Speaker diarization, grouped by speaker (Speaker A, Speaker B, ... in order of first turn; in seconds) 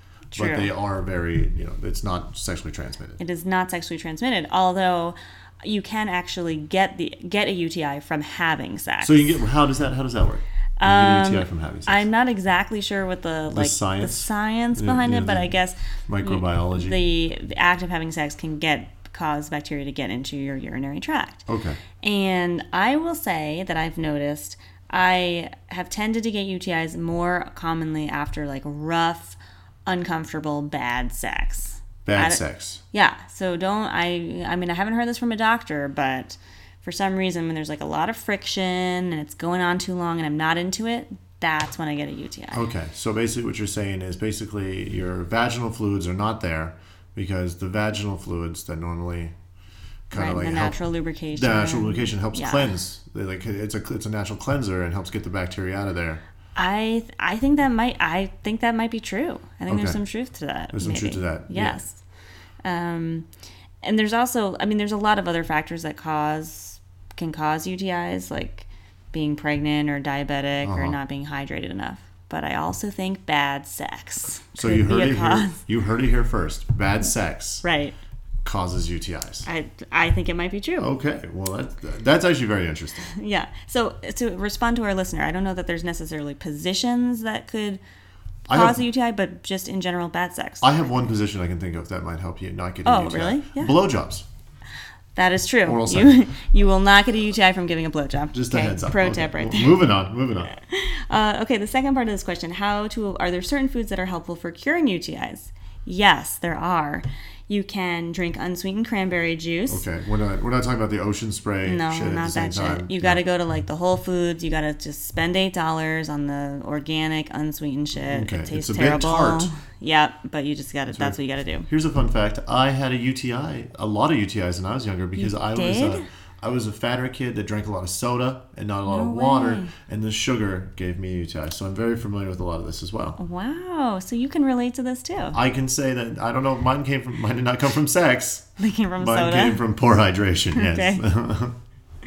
Speaker A: 0.3-0.7, 3.2-9.4, 10.8-21.5, 22.0-42.6, 50.1-52.7, 56.5-62.0, 62.6-63.3, 63.8-75.6, 77.6-78.0, 79.4-80.9, 83.0-87.8, 88.5-90.7, 92.8-93.8, 95.1-99.9, 100.6-109.9, 111.6-121.7, 125.2-126.0, 128.9-129.7, 133.2-135.4, 138.6-139.6, 140.5-141.1
Speaker B: 0.3-3.2, 9.0-12.1, 13.5-15.5, 16.1-17.0, 21.5-21.8, 32.0-32.8, 42.5-49.3, 50.1-50.8, 51.3-56.2, 59.7-60.0, 60.7-61.8, 70.6-71.0, 74.6-77.6, 78.4-79.5, 80.8-83.1, 88.5-88.8, 90.6-94.2, 95.6-96.2, 98.3-100.5, 109.7-113.2, 118.0-119.5, 120.9-133.2, 135.3-141.5